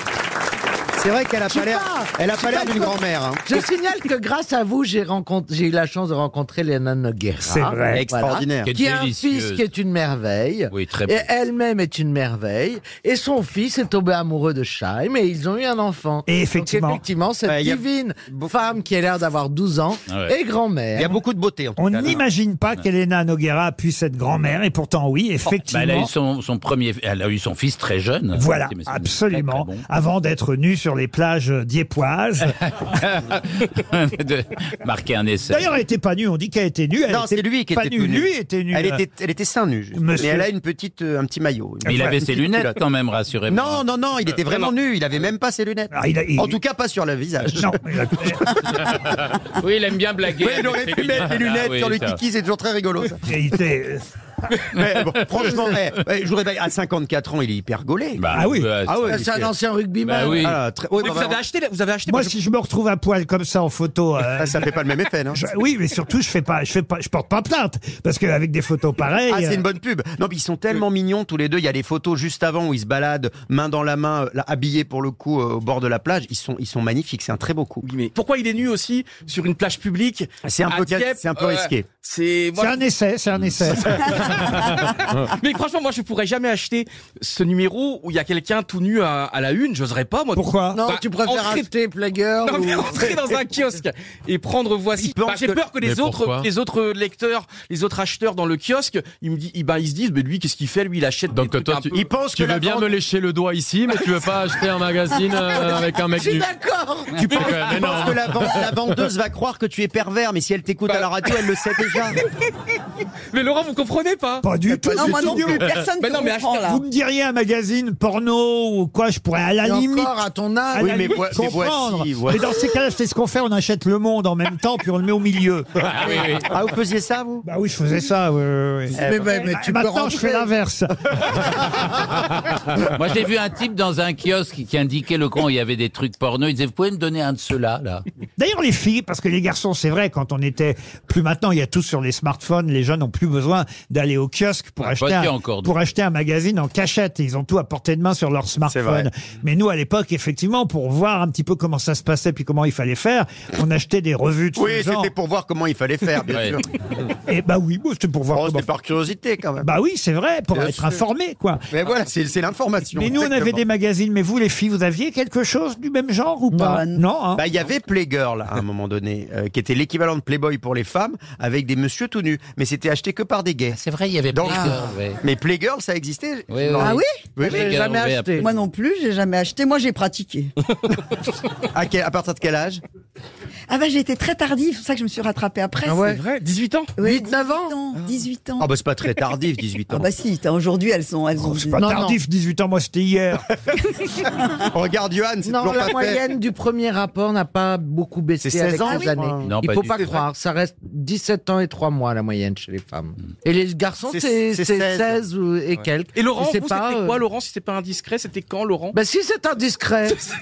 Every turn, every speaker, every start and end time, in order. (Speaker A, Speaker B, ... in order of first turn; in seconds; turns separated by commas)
Speaker A: 1.0-3.5, Speaker B: 1.5-21.2, Speaker C: 7.4-8.1, Speaker A: 8.0-8.7, Speaker D: 8.7-9.6, Speaker D: 10.7-11.3, Speaker C: 16.3-17.0, Speaker A: 17.5-18.5, Speaker D: 20.1-20.3, Speaker A: 20.9-22.2, Speaker C: 21.8-26.1, Speaker D: 25.6-29.8, Speaker C: 28.3-32.6, Speaker D: 32.7-35.7, Speaker C: 35.5-39.0, Speaker A: 37.1-42.8, Speaker C: 39.9-40.5, Speaker D: 41.8-43.8, Speaker A: 43.5-48.3, Speaker C: 45.9-46.6, Speaker C: 47.5-48.5, Speaker D: 49.6-52.2, Speaker A: 50.3-53.2, Speaker C: 53.3-54.0, Speaker A: 54.7-59.5, Speaker D: 58.2-59.2, Speaker C: 58.3-58.7, Speaker B: 59.1-60.5, Speaker D: 60.0-60.6, Speaker A: 60.3-61.4, Speaker E: 61.0-62.3, Speaker C: 62.1-64.6, Speaker A: 64.4-65.4, Speaker C: 65.3-69.6, Speaker A: 69.3-77.9, Speaker E: 77.8-82.8, Speaker A: 80.4-81.9, Speaker C: 82.6-84.1, Speaker E: 83.7-91.7, Speaker C: 90.3-90.8, Speaker B: 90.8-93.2, Speaker E: 92.4-102.0, Speaker A: 95.0-95.6, Speaker F: 95.8-96.5, Speaker F: 101.3-106.5, Speaker A: 101.9-102.9, Speaker B: 105.6-107.3, Speaker A: 107.2-112.2, Speaker E: 107.3-107.6, Speaker F: 107.3-108.8, Speaker E: 110.9-112.2, Speaker E: 113.3-116.7, Speaker C: 114.4-115.7, Speaker G: 115.0-116.8, Speaker C: 116.7-120.2, Speaker B: 119.6-121.1, Speaker C: 120.7-125.7, Speaker A: 120.8-122.5, Speaker D: 125.8-126.5, Speaker A: 126.5-127.5, Speaker C: 127.5-130.9, Speaker B: 129.0-130.5, Speaker A: 129.0-129.3, Speaker D: 132.8-138.0, Speaker C: 138.4-155.1, Speaker D: 144.8-145.7, Speaker A: 148.7-149.1, Speaker A: 154.6-156.7, Speaker D: 156.3-156.6, Speaker C: 157.3-158.7, Speaker A: 158.3-159.7, Speaker C: 159.6-161.6, Speaker A: 160.5-161.0, Speaker A: 161.7-163.6, Speaker C: 163.0-167.4, Speaker G: 166.5-167.0, Speaker A: 167.4-173.8, Speaker D: 173.7-175.2, Speaker A: 174.3-177.9, Speaker D: 176.5-178.5, Speaker G: 176.8-177.1, Speaker B: 177.4-178.5, Speaker G: 178.4-180.5, Speaker A: 181.7-182.8, Speaker G: 183.7-186.2, Speaker B: 185.9-186.2, Speaker E: 185.9-187.0, Speaker G: 187.0-188.7, Speaker B: 187.0-187.8, Speaker A: 188.6-190.1, Speaker G: 189.9-191.9, Speaker C: 191.4-193.4, Speaker B: 191.8-192.2, Speaker A: 194.7-196.2, Speaker B: 195.4-207.2, Speaker A: 198.4-199.5, Speaker D: 199.4-200.0, Speaker A: 204.1-205.2, Speaker E: 205.8-209.0, Speaker B: 208.9-210.2